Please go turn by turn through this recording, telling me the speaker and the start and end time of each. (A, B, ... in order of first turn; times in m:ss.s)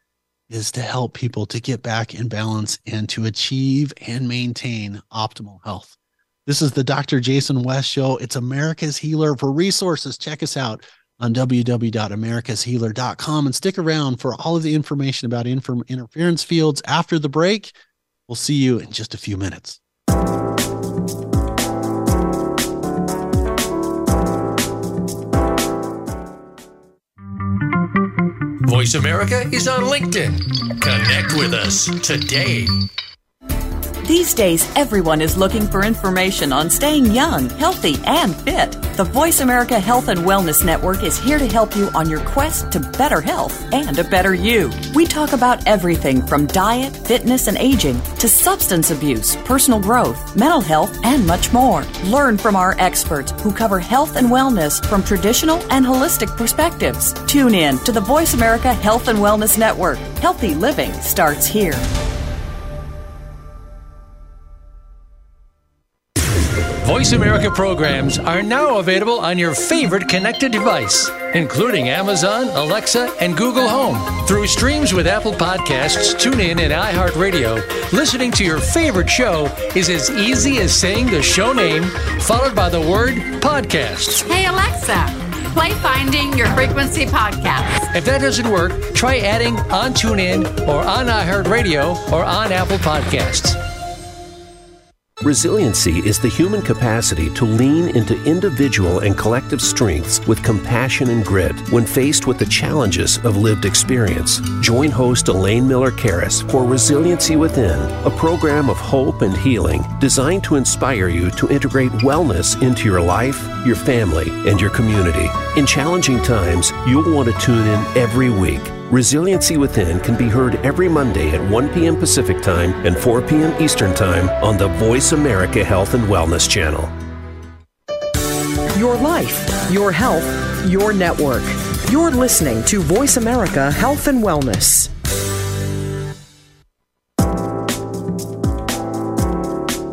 0:00.5-0:17.7 A
0:18.3-0:19.8 A
0:28.6-0:32.8 B
0:34.0-1:01.9 C
1:06.8-1:24.2 B
1:24.2-1:27.9 D
1:27.9-1:33.6 B
1:35.2-2:06.9 E
2:08.7-2:14.9 F